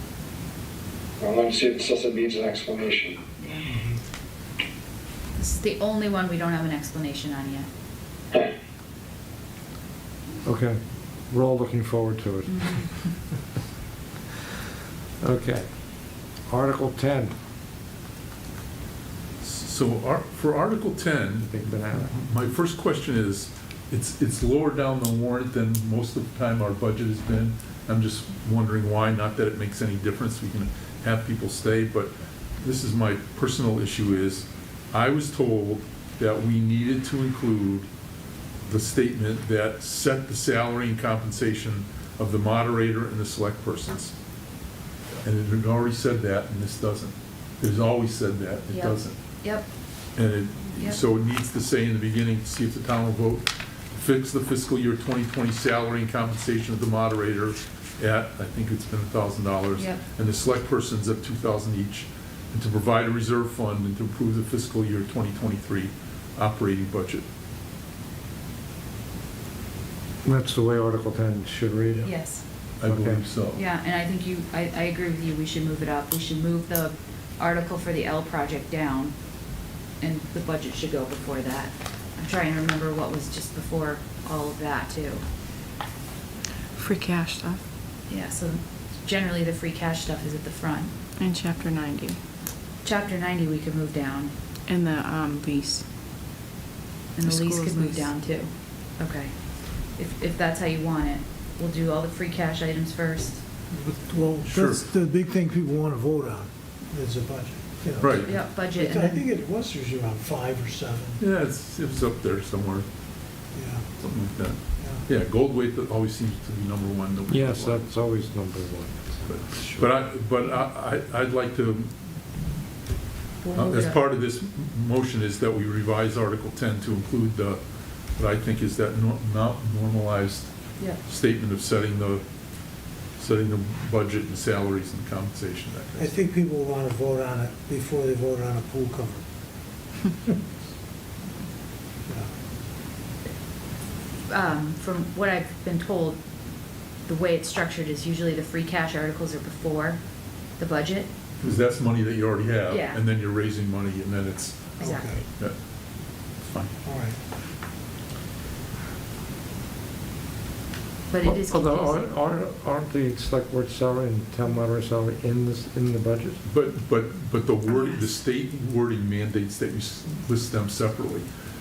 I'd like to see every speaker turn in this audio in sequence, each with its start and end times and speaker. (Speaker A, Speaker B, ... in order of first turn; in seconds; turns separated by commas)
Speaker A: 1.2-3.2, Speaker B: 3.4-3.7, Speaker C: 3.7-4.0, Speaker B: 5.4-7.7, Speaker D: 10.4-12.9, Speaker B: 12.5-12.9, Speaker D: 15.2-15.7, Speaker D: 16.5-17.4, Speaker E: 19.4-37.9, Speaker D: 21.4-22.2, Speaker E: 38.7-44.1, Speaker E: 45.2-49.2, Speaker B: 48.7-49.7, Speaker E: 50.2-67.2, Speaker D: 70.2-72.1, Speaker B: 72.0-72.4, Speaker E: 72.8-73.6, Speaker D: 72.8-73.2, Speaker B: 73.6-79.1, Speaker B: 80.0-85.2, Speaker F: 86.8-87.6, Speaker B: 88.1-90.9, Speaker F: 91.2-92.2, Speaker B: 92.8-94.3, Speaker F: 94.7-95.8, Speaker B: 97.2-99.3, Speaker F: 97.2-98.1, Speaker B: 99.9-103.4, Speaker C: 103.7-111.2, Speaker E: 104.5-104.8, Speaker E: 108.0-108.5, Speaker B: 108.1-109.2, Speaker E: 111.2-112.9, Speaker C: 113.5-113.9, Speaker E: 114.0-117.8, Speaker D: 117.3-119.9, Speaker E: 119.3-121.9, Speaker B: 123.4-124.0, Speaker E: 123.5-127.6, Speaker E: 128.2-132.2, Speaker E: 133.2-136.2, Speaker C: 136.0-139.2, Speaker B: 144.3-146.2, Speaker B: 147.1-150.0, Speaker B: 150.6-151.1, Speaker E: 151.4-154.8, Speaker B: 152.7-153.0, Speaker B: 154.8-155.1, Speaker C: 154.8-155.2, Speaker E: 156.4-156.7, Speaker C: 156.8-157.2, Speaker B: 161.1-162.1, Speaker D: 161.2-166.4, Speaker E: 166.4-171.3, Speaker B: 167.7-168.0